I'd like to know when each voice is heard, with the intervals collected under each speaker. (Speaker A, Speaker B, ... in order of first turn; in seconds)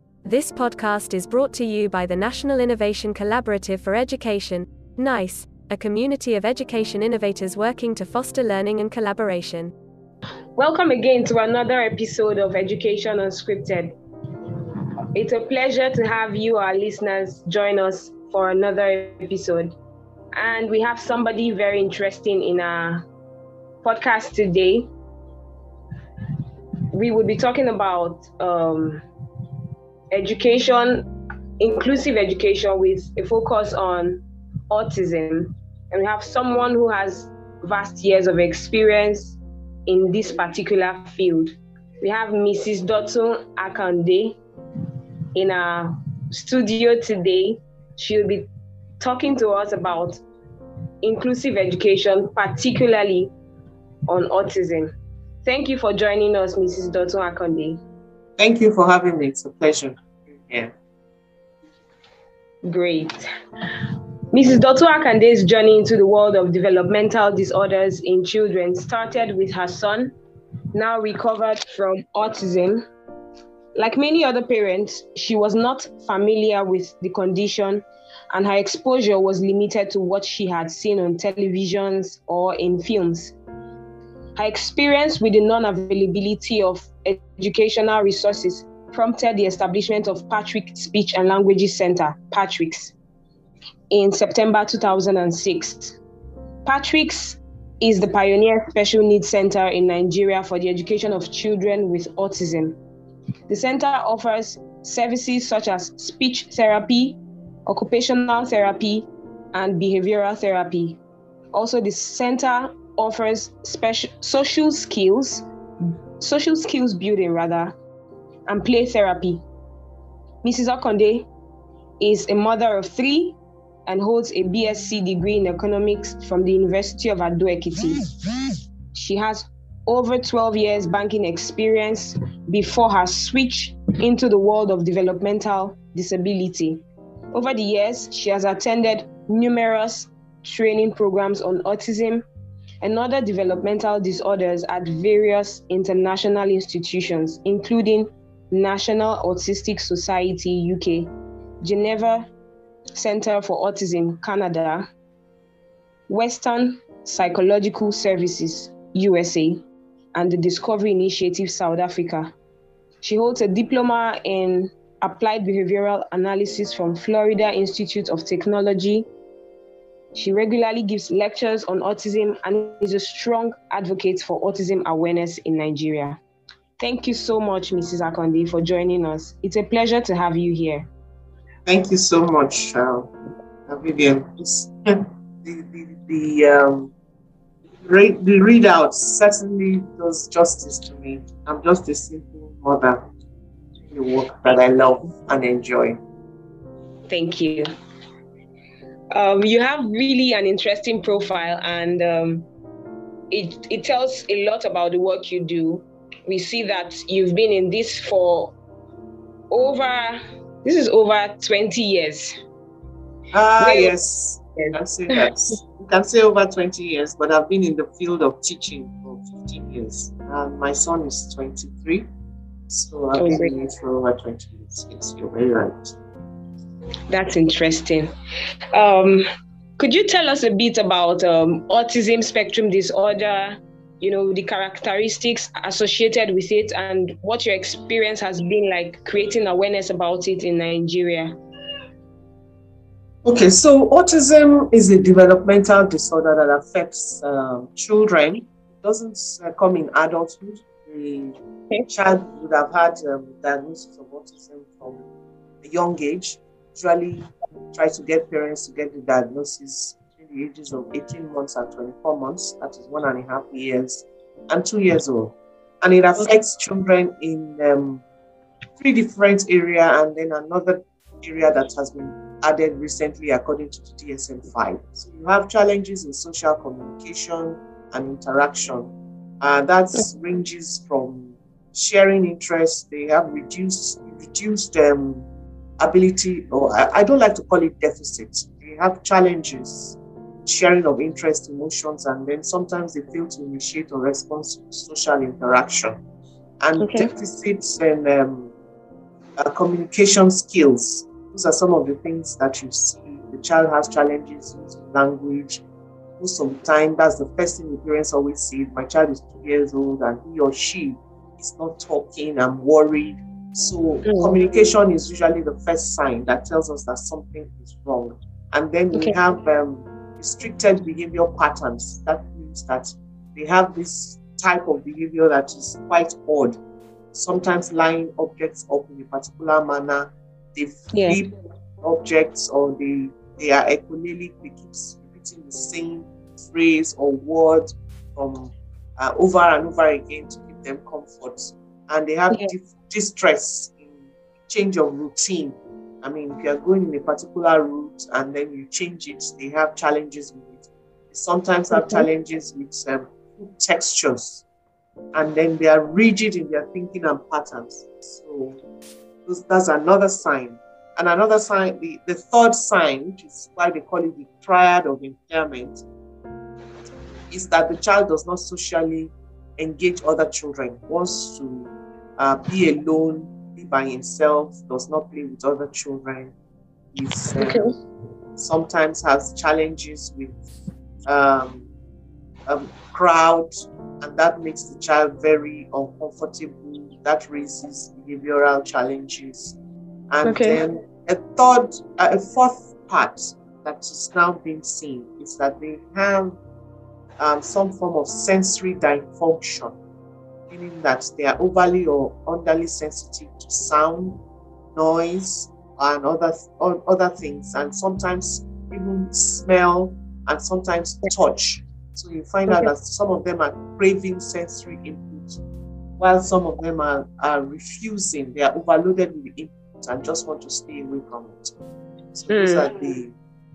Speaker A: 0.2-9.7
Speaker B: 10.6-13.9, 15.1-19.8, 20.4-23.1, 23.8-24.9, 26.9-29.1, 30.1-31.1, 31.6-44.4, 45.4-48.5, 49.0-50.2, 51.0-53.3, 54.1-54.9, 55.4-57.8, 62.6-63.2, 64.3-70.2, 70.7-72.8, 73.8-83.3, 84.4-92.9, 93.9-96.0, 96.7-102.8, 103.5-111.0, 111.5-115.5, 116.2-117.8, 118.5-119.4, 120.4-121.3, 122.0-128.1, 128.9-142.2, 142.8-152.3, 153.0-154.9, 156.1-159.6, 160.2-162.3, 163.0-169.1, 170.2-176.2, 176.8-180.9, 197.1-197.7, 199.1-202.5, 203.3-208.6, 209.5-212.3, 213.6-213.9, 223.2-223.5, 227.1-228.1, 228.7-229.3, 229.8-241.3, 296.8-297.1, 314.1-314.4, 330.9-331.2, 351.7-352.1, 377.4-377.7, 390.2-390.6, 422.3-422.7
Speaker C: 58.4-60.7, 181.7-183.1, 183.7-186.9, 187.8-193.0, 193.9-196.0, 213.3-222.1, 222.7-225.9, 243.2-255.1, 255.6-268.0, 268.8-285.3, 285.8-296.0, 296.6-298.5, 299.4-305.6, 306.2-326.6, 327.1-354.4, 355.1-358.6, 359.3-365.8, 367.3-376.3, 376.9-377.6, 378.4-380.4, 381.1-381.7, 382.5-389.6, 390.1-396.4, 397.2-399.8, 400.5-404.2, 404.8-415.4, 416.0-421.6, 422.1-423.1